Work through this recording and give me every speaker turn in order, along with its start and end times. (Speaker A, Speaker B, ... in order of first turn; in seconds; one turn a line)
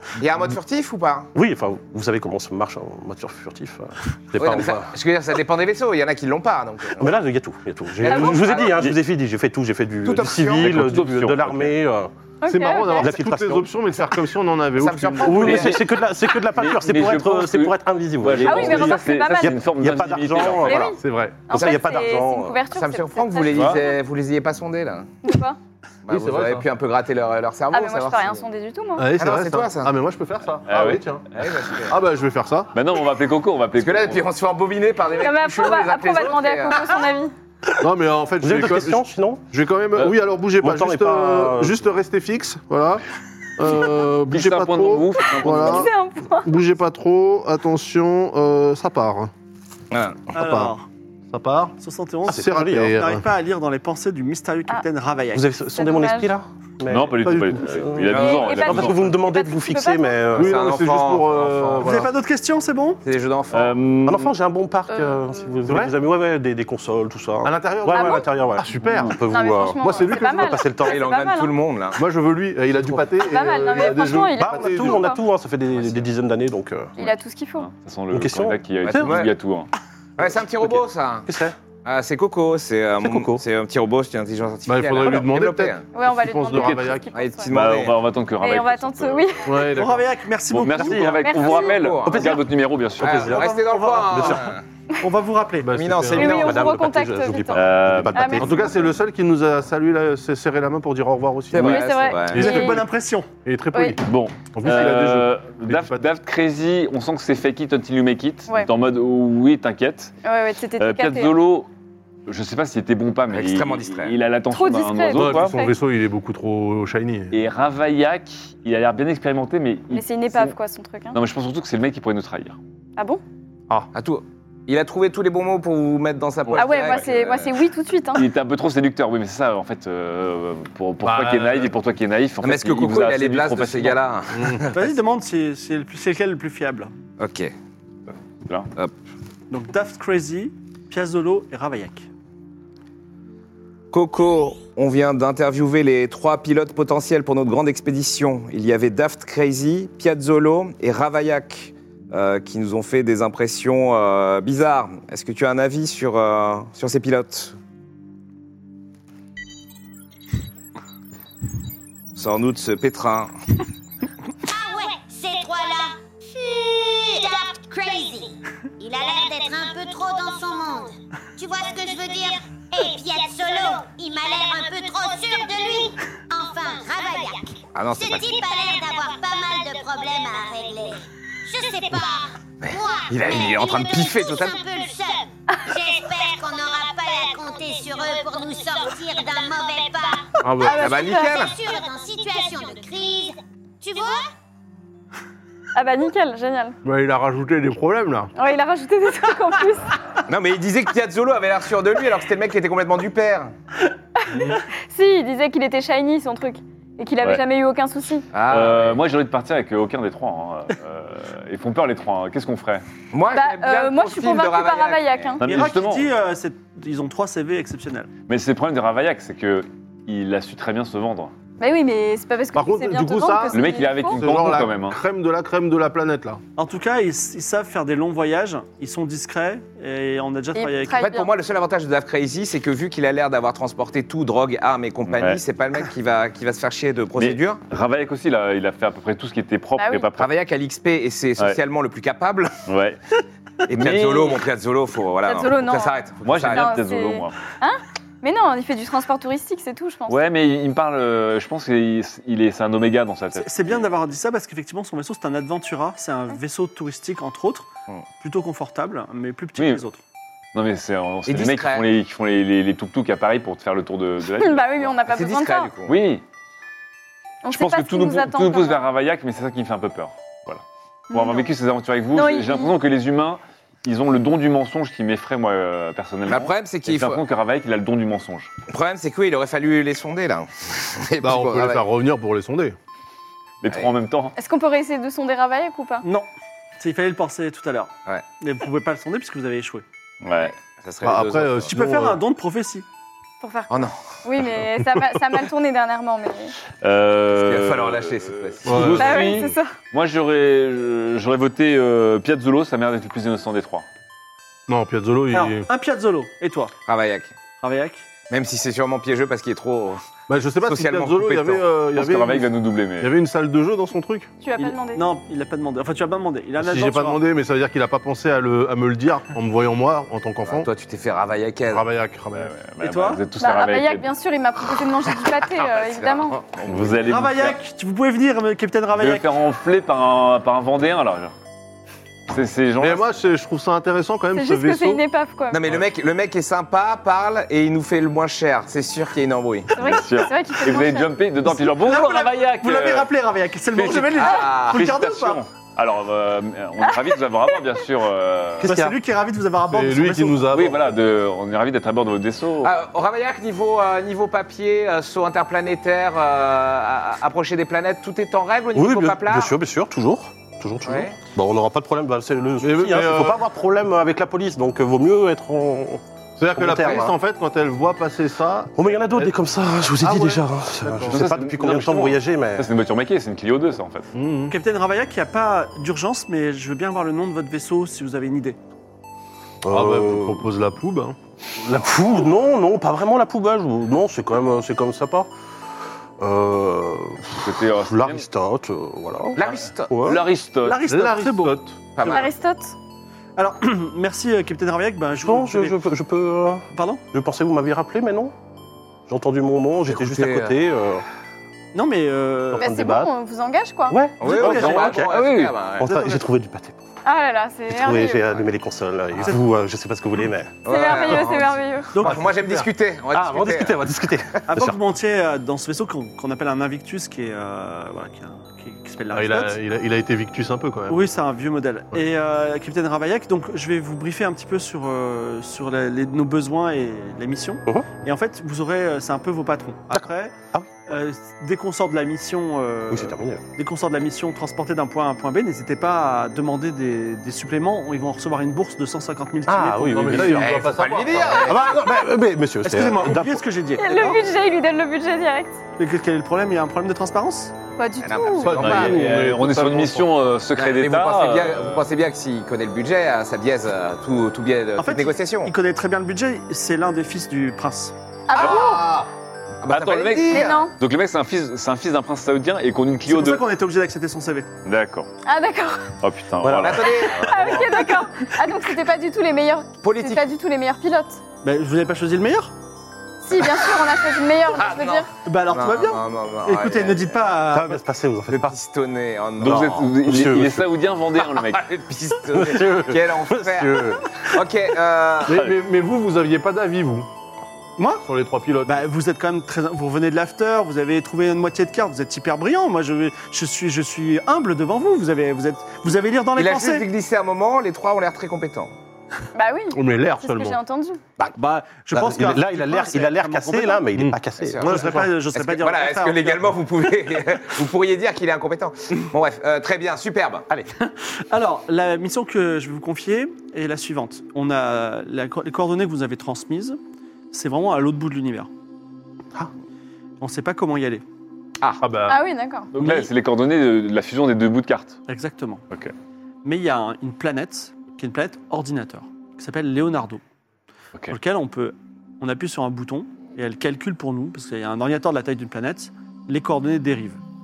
Speaker A: 0.1-1.3
Speaker B: 1.3-4.9
Speaker A: 4.4-7.2
Speaker B: 7.0-12.1
Speaker A: 8.0-8.9
Speaker C: 8.1-8.5
Speaker A: 10.0-10.8
Speaker D: 10.6-11.7
Speaker C: 12.4-13.1
Speaker E: 12.4-15.8
Speaker B: 13.0-14.2
Speaker A: 14.8-15.8
Speaker B: 15.2-20.9
Speaker D: 16.5-20.9
Speaker C: 18.4-19.6
Speaker C: 20.4-23.9
Speaker E: 20.9-21.6
Speaker B: 21.5-22.6
Speaker A: 22.7-25.1
Speaker D: 23.5-23.8
Speaker C: 25.2-25.6
Speaker A: 26.1-28.4
Speaker E: 26.1-26.6
Speaker C: 27.7-29.1
Speaker E: 29.0-31.2
Speaker A: 29.2-29.9
Speaker D: 30.7-31.0
Speaker A: 31.4-32.0
Speaker E: 31.9-32.7
Speaker D: 32.7-34.3
Speaker A: 33.8-37.0
Speaker C: 35.2-37.3
Speaker E: 37.8-43.0
Speaker B: 38.4-39.5
Speaker B: 40.0-41.8
Speaker E: 43.6-49.3
Speaker D: 44.3-45.9
Speaker C: 45.4-46.5
Speaker A: 49.9-50.3
Speaker E: 50.3-50.7
Speaker F: 50.3-50.9
Speaker E: 51.3-51.8
Speaker F: 51.8-55.5
Speaker B: 52.3-53.0
Speaker E: 52.3-53.2
Speaker B: 55.3-60.7
Speaker C: 55.7-56.3
Speaker D: 56.9-59.2
Speaker E: 57.2-57.7
Speaker A: 58.1-58.6
Speaker C: 58.1-60.4
Speaker A: 60.3-62.1
Speaker E: 60.4-62.1
Speaker F: 61.8-63.0
Speaker A: 63.0-63.7
Speaker D: 63.5-64.3
Speaker B: 64.0-71.0
Speaker C: 64.9-65.4
Speaker E: 65.6-65.9
Speaker E: 67.4-69.2
Speaker C: 67.9-68.2
Speaker D: 68.8-69.2
Speaker C: 69.3-71.5
Speaker E: 69.8-70.6
Speaker A: 70.8-72.0
Speaker E: 72.0-75.2
Speaker B: 72.8-73.1
Speaker C: 73.2-75.2
Speaker B: 73.8-77.0
Speaker A: 75.7-76.1
Speaker C: 77.0-77.7
Speaker D: 77.6-79.7
Speaker B: 78.1-79.3
Speaker A: 78.8-79.3
Speaker A: 80.2-81.3
Speaker B: 80.6-81.5
Speaker A: 81.8-85.8
Speaker B: 83.0-83.5
Speaker E: 84.7-87.1
Speaker C: 85.9-87.5
Speaker A: 87.1-88.0
Speaker D: 87.5-89.4
Speaker C: 88.4-89.7
Speaker E: 89.4-90.1
Speaker F: 89.7-91.2
Speaker D: 90.5-93.3
Speaker B: 90.7-91.2
Speaker C: 91.2-91.8
Speaker A: 91.3-92.4
Speaker B: 92.0-93.5
Speaker A: 93.0-94.6
Speaker F: 93.3-95.8
Speaker B: 94.1-94.5
Speaker E: 95.6-96.5
Speaker A: 95.7-96.6
Speaker B: 96.1-98.9
Speaker C: 96.1-98.8
Speaker D: 97.5-98.4
Speaker E: 98.4-102.8
Speaker A: 101.5-102.5
Speaker C: 101.6-102.8
Speaker F: 102.3-103.3
Speaker E: 103.4-106.0
Speaker D: 104.0-110.1
Speaker C: 110.2-111.3
Speaker D: 110.8-111.7
Speaker D: 112.3-115.6
Speaker A: 113.3-114.2
Speaker C: 114.5-115.7
Speaker E: 115.1-117.3
Speaker D: 117.3-120.5
Speaker C: 119.9-121.2
Speaker D: 121.1-122.6
Speaker C: 123.0-123.2
Speaker A: 123.9-127.6
Speaker D: 126.5-127.0
Speaker C: 126.5-128.3
Speaker D: 128.1-134.0
Speaker E: 131.0-131.7
Speaker A: 132.4-134.8
Speaker E: 134.3-134.7
Speaker F: 134.7-136.9
Speaker A: 137.2-137.5
Speaker F: 139.5-142.1
Speaker A: 143.9-157.6
Speaker A: 162.1-163.3
Speaker G: 164.5-190.3
Speaker A: 177.7-178.3
Speaker A: 182.6-184.6
Speaker E: 190.4-190.8
Speaker C: 190.6-191.5
Speaker A: 190.8-191.5
Speaker G: 190.9-194.2
Speaker C: 195.7-196.8
Speaker E: 196.8-198.3
Speaker C: 198.3-199.9
Speaker A: 200.3-203.5
Speaker C: 204.2-208.2
Speaker E: 204.3-204.6
Speaker A: 208.3-209.0
Speaker D: 208.5-212.8
Speaker A: 213.1-215.3
Speaker C: 213.3-215.4
Speaker D: 215.4-216.1
Speaker F: 215.4-218.1
Speaker D: 218.3-221.3
Speaker C: 221.6-224.2
Speaker E: 222.5-226.4
Speaker D: 223.5-225.0
Speaker F: 226.6-231.1
Speaker C: 230.5-231.3
Speaker A: 231.0-237.6
Speaker D: 235.1-235.4
Speaker D: 237.2-240.3
Speaker C: 239.8-240.1
Speaker A: 240.2-242.6
Speaker D: 242.7-243.0
Speaker D: 243.7-244.4
Speaker A: 243.7-246.8
Speaker C: 245.2-250.2
Speaker D: 246.2-247.3
Speaker D: 250.1-253.9
Speaker F: 253.3-257.7
Speaker F: 258.2-260.0
Speaker D: 259.6-259.8
Speaker D: 260.5-265.0
Speaker A: 261.3-261.9
Speaker C: 264.4-265.7
Speaker A: 265.1-266.0
Speaker D: 265.9-266.2
Speaker C: 267.4-268.8
Speaker D: 267.5-278.5
Speaker C: 271.1-271.5
Speaker C: 272.1-272.7
Speaker A: 276.2-277.2
Speaker A: 278.7-281.8
Speaker E: 281.2-282.8
Speaker D: 283.6-284.3
Speaker C: 284.4-286.0
Speaker F: 286.0-286.3
Speaker F: 286.8-289.8
Speaker D: 290.2-290.5
Speaker A: 290.3-291.7
Speaker E: 291.0-292.2
Speaker F: 291.7-292.9
Speaker C: 293.4-296.5
Speaker A: 293.7-294.0
Speaker E: 294.9-295.1
Speaker D: 296.8-303.9
Speaker A: 297.4-299.2
Speaker E: 298.6-299.3
Speaker C: 298.9-299.7
Speaker E: 304.7-305.7
Speaker F: 305.3-306.7
Speaker A: 306.9-307.4
Speaker F: 307.6-308.0
Speaker A: 308.3-310.0
Speaker E: 310.3-314.3
Speaker A: 310.6-311.6
Speaker D: 311.9-313.1
Speaker C: 314.4-315.1
Speaker F: 314.6-317.2
Speaker E: 316.6-320.7
Speaker A: 320.4-321.8
Speaker E: 321.7-322.5
Speaker D: 322.4-324.1
Speaker F: 322.8-323.2
Speaker C: 323.4-326.4
Speaker A: 325.4-327.0
Speaker D: 326.6-327.6
Speaker F: 327.0-329.3
Speaker D: 329.0-331.3
Speaker D: 332.3-333.1
Speaker E: 332.8-335.0
Speaker C: 334.3-335.6
Speaker A: 335.5-339.7
Speaker C: 339.7-341.1
Speaker D: 339.8-343.1
Speaker F: 341.4-345.4
Speaker D: 343.7-348.7
Speaker A: 344.1-344.9
Speaker B: 348.6-349.0
Speaker F: 348.6-350.5
Speaker E: 349.7-350.8
Speaker D: 350.5-352.7
Speaker A: 352.6-359.5
Speaker B: 358.7-367.1
Speaker A: 360.8-361.1
Speaker E: 362.6-363.4
Speaker E: 366.4-369.3
Speaker B: 368.8-372.7
Speaker E: 369.9-371.3
Speaker D: 371.1-374.1
Speaker E: 374.1-374.5
Speaker F: 374.5-378.6
Speaker B: 379.6-380.4
Speaker E: 379.7-381.2
Speaker B: 381.6-385.3
Speaker B: 386.2-390.2
Speaker D: 387.4-388.2
Speaker A: 389.4-389.9
Speaker D: 389.9-390.8
Speaker F: 390.6-392.3
Speaker E: 390.9-391.9
Speaker A: 391.9-392.3
Speaker C: 392.1-392.7
Speaker F: 393.4-395.8
Speaker B: 395.2-398.3
Speaker F: 396.7-397.0
Speaker B: 399.1-401.0
Speaker A: 399.9-400.6
Speaker F: 401.7-402.7
Speaker B: 402.5-403.1
Speaker C: 402.6-404.0
Speaker B: 403.9-404.7
Speaker A: 404.2-405.9
Speaker F: 404.2-405.1
Speaker D: 404.2-405.6
Speaker B: 405.8-406.8
Speaker F: 405.8-406.2
Speaker C: 407.0-408.4
Speaker B: 407.7-410.7
Speaker A: 410.6-414.4
Speaker C: 410.7-411.9
Speaker F: 411.9-412.3
Speaker E: 412.0-412.7
Speaker B: 413.1-414.8
Speaker F: 414.5-419.6
Speaker E: 419.1-421.0
Speaker F: 420.9-430.3
Speaker B: 429.9-430.7
Speaker F: 430.9-440.4
Speaker B: 432.9-433.4
Speaker B: 439.4-440.6
Speaker E: 439.9-441.4
Speaker A: 440.4-441.8
Speaker B: 441.4-443.4
Speaker F: 442.6-444.2
Speaker C: 443.8-445.6
Speaker F: 445.8-447.5
Speaker C: 447.8-448.6
Speaker A: 448.0-449.1
Speaker E: 448.4-450.1
Speaker D: 448.6-451.8
Speaker A: 450.5-455.5
Speaker F: 454.8-457.9
Speaker C: 458.3-458.9
Speaker A: 458.3-458.9
Speaker D: 458.4-458.8
Speaker E: 458.6-459.1
Speaker A: 459.6-460.6
Speaker D: 459.7-463.4
Speaker C: 460.3-460.7
Speaker F: 463.1-464.5
Speaker D: 464.6-465.1
Speaker C: 465.2-465.9
Speaker D: 466.0-467.6
Speaker B: 466.4-467.0
Speaker A: 466.6-467.6
Speaker C: 467.0-471.2
Speaker A: 469.8-470.2
Speaker F: 471.4-472.5
Speaker C: 473.2-475.1
Speaker A: 474.4-477.2
Speaker F: 475.2-477.8
Speaker B: 477.4-478.6
Speaker A: 478.3-479.8
Speaker D: 479.4-481.7
Speaker B: 479.4-480.7
Speaker A: 481.3-485.4
Speaker B: 482.3-484.2
Speaker E: 485.2-487.1
Speaker F: 487.8-488.0
Speaker E: 488.0-488.8
Speaker F: 488.6-496.8
Speaker A: 496.3-498.7
Speaker C: 499.3-501.0
Speaker E: 499.7-500.6
Speaker F: 501.2-503.9
Speaker B: 501.9-505.1
Speaker E: 503.9-505.1
Speaker A: 504.4-504.7
Speaker F: 504.6-506.4
Speaker A: 505.3-510.5
Speaker F: 510.8-516.8
Speaker F: 517.3-518.5
Speaker F: 520.2-521.0
Speaker E: 521.8-522.2
Speaker C: 522.1-522.7
Speaker D: 522.7-525.0
Speaker F: 522.8-523.1
Speaker F: 525.1-525.6
Speaker F: 526.4-530.2
Speaker F: 531.1-537.2